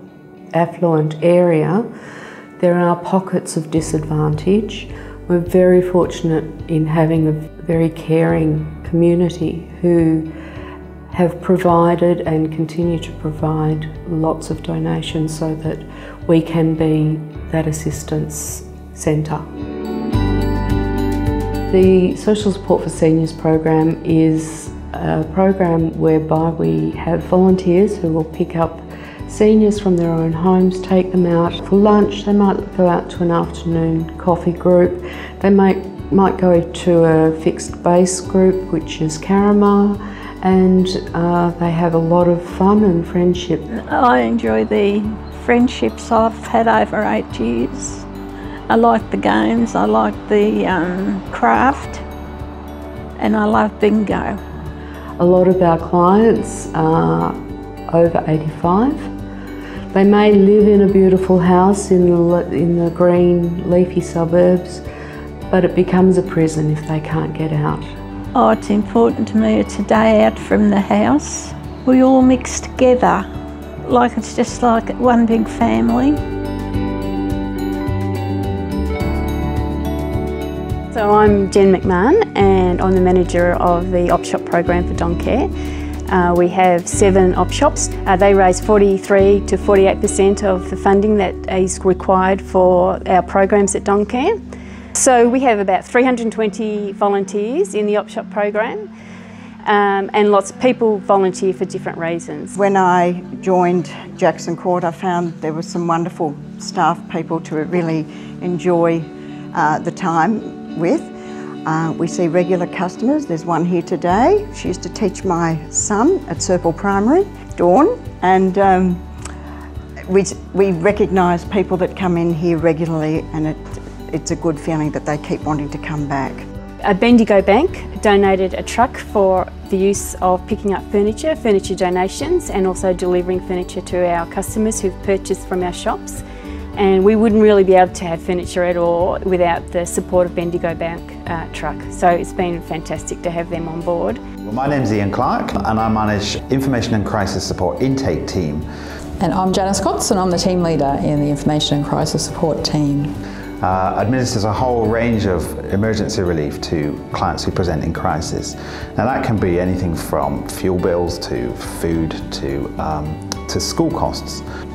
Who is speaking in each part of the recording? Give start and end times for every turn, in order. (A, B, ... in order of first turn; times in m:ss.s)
0:00.5-0:01.9 A
0:02.6-0:10.3 A
0:11.1-0:19.4 A
0:21.7-0:43.7 A
0:43.7-0:48.0 B
0:48.7-0:52.0 B
0:53.2-0:54.4 B
0:55.2-0:57.4 A
0:57.9-0:59.1 A
0:59.9-1:04.8 A
1:05.5-1:07.9 A
1:08.3-1:13.3 B
1:13.8-1:16.2 B
1:20.9-1:25.5 C
1:26.1-1:34.4 C
1:35.0-1:38.9 C
1:39.6-1:42.6 C
1:42.5-1:51.1 D
1:51.6-1:59.0 D
2:00.1-2:06.4 D
2:06.8-2:16.2 C
2:16.8-2:24.2 C
2:24.4-2:28.6 E
2:29.2-2:33.1 F
2:33.6-2:44.4 E